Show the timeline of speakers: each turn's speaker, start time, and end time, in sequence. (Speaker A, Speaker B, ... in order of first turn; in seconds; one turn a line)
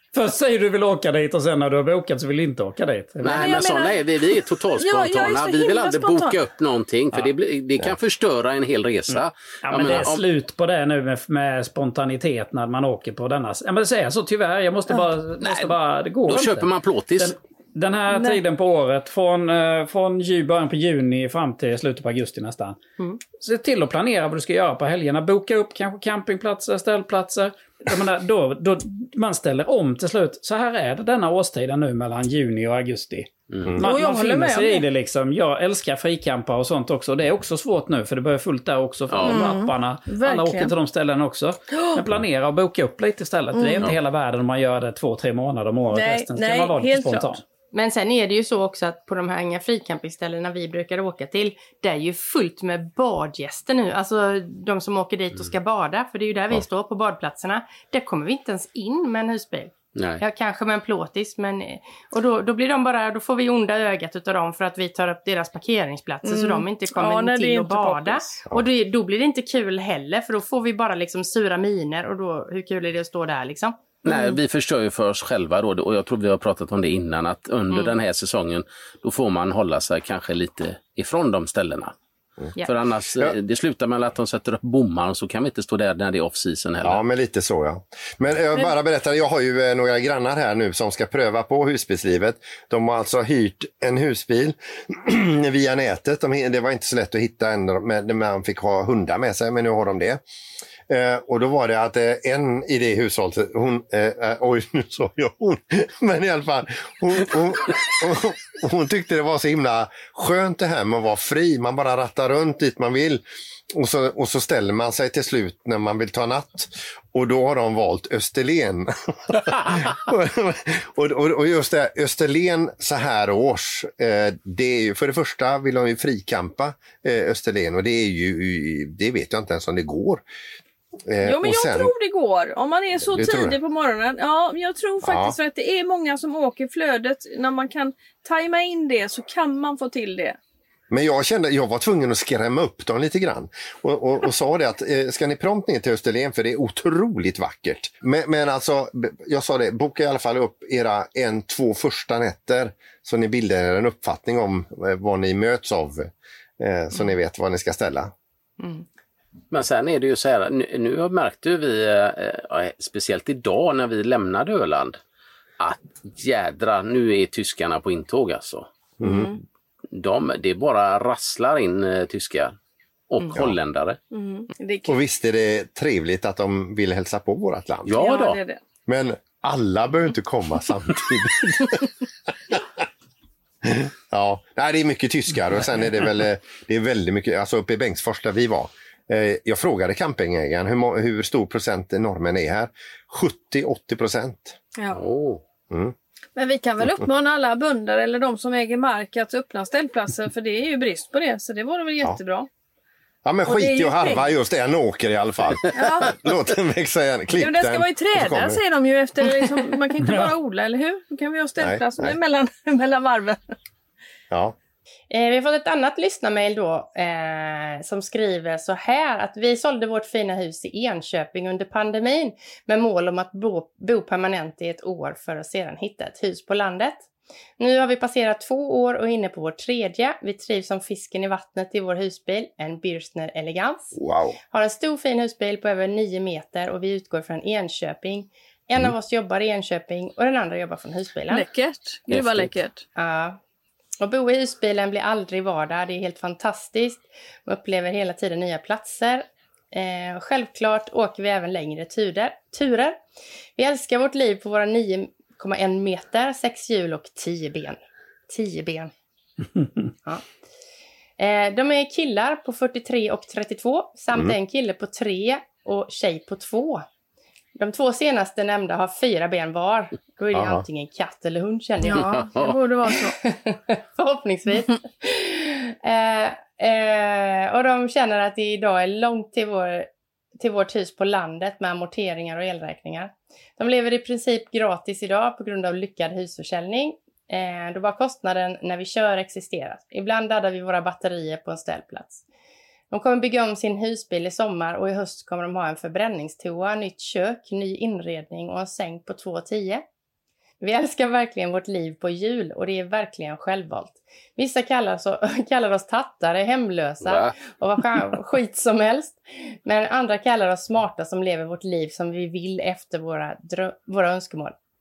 Speaker A: 0.1-3.6
Speaker B: 3.2-10.2
Speaker C: 3.2-6.4
Speaker A: 9.1-22.8
Speaker B: 15.4-15.7
Speaker B: 16.3-17.4
Speaker C: 18.1-18.4
Speaker A: 23.4-47.4
Speaker B: 33.5-33.8
Speaker C: 33.8-34.9
Speaker B: 39.1-39.5
Speaker C: 39.2-40.7
Speaker C: 41.7-42.0
Speaker C: 43.5-43.9
Speaker C: 45.9-47.4
Speaker D: 47.7-74.3
Speaker B: 60.0-60.2
Speaker C: 66.2-68.5
Speaker B: 74.0-82.0
Speaker B: 82.6-87.0
Speaker E: 86.8-100.2
Speaker E: 100.9-130.2
Speaker E: 131.1-131.9
Speaker C: 131.2-140.4
Speaker E: 133.0-133.6
Speaker E: 135.0-135.3
Speaker E: 140.9-158.1
Speaker D: 158.6-158.8
Speaker B: 159.5-165.0
Speaker B: 165.6-168.7
Speaker E: 169.0-169.3
Speaker C: 169.0-169.4
Speaker B: 169.9-172.6
Speaker B: 173.1-174.0
Speaker C: 174.1-175.0
Speaker E: 174.9-178.0
Speaker B: 177.9-178.4
Speaker C: 177.9-178.6
Speaker E: 178.9-181.9
Speaker E: 183.6-194.6
Speaker B: 194.9-195.4
Speaker E: 195.7-195.9
Speaker C: 196.4-202.5
Speaker E: 203.2-208.6
Speaker C: 203.4-204.3
Speaker C: 205.7-206.1
Speaker C: 207.4-213.5
Speaker A: 210.0-210.4
Speaker E: 211.6-212.1
Speaker D: 215.1-227.1
Speaker D: 227.6-234.0
Speaker E: 233.9-234.4
Speaker D: 234.5-241.5
Speaker C: 241.3-242.9
Speaker D: 243.0-243.4
Speaker D: 244.0-253.0
Speaker D: 253.6-258.9
Speaker D: 261.2-266.9
Speaker D: 267.6-272.4
Speaker E: 270.3-270.6
Speaker C: 271.8-273.2
Speaker B: 272.2-272.6
Speaker D: 273.1-292.2
Speaker D: 292.9-299.9
Speaker D: 300.6-314.5
Speaker B: 307.1-307.3